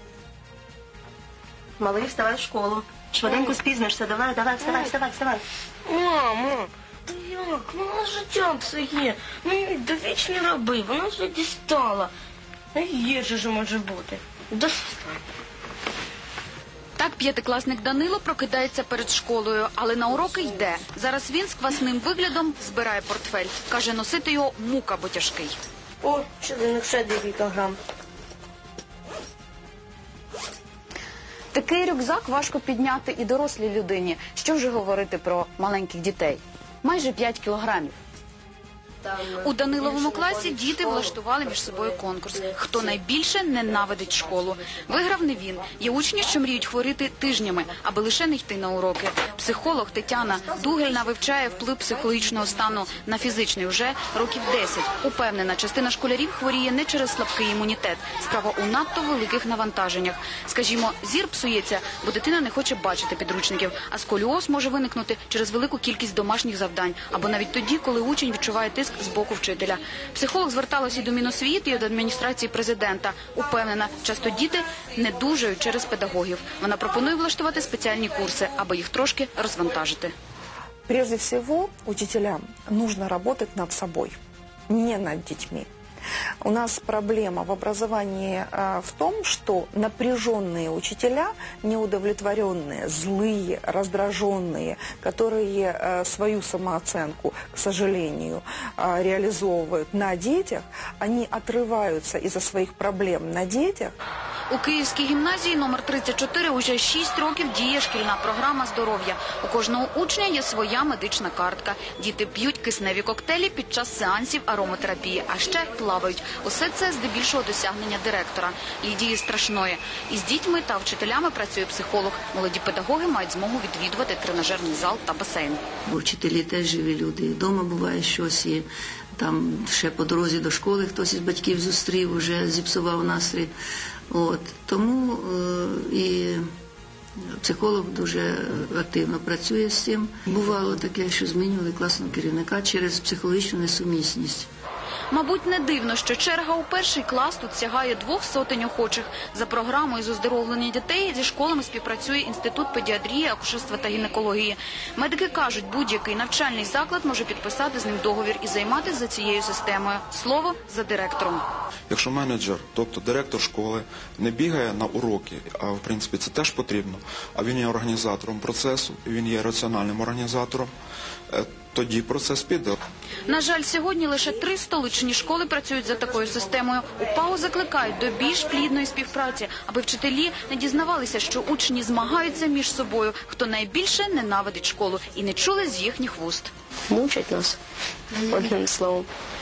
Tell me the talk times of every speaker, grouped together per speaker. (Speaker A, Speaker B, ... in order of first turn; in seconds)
Speaker A: 1.8-5.4
Speaker B: 3.2-3.6, 4.6-4.9, 5.8-12.1, 12.7-15.2, 26.0-27.8, 186.9-187.6, 188.2-189.1
Speaker C: 17.0-25.6, 31.5-37.9, 39.1-80.1, 104.5-125.6, 145.1-161.4, 173.3-186.5
Speaker D: 80.9-84.2, 84.7-85.7, 86.4-103.9
Speaker E: 125.8-133.5, 134.1-136.4, 137.4-144.5
Speaker F: 161.9-170.7, 171.3-172.8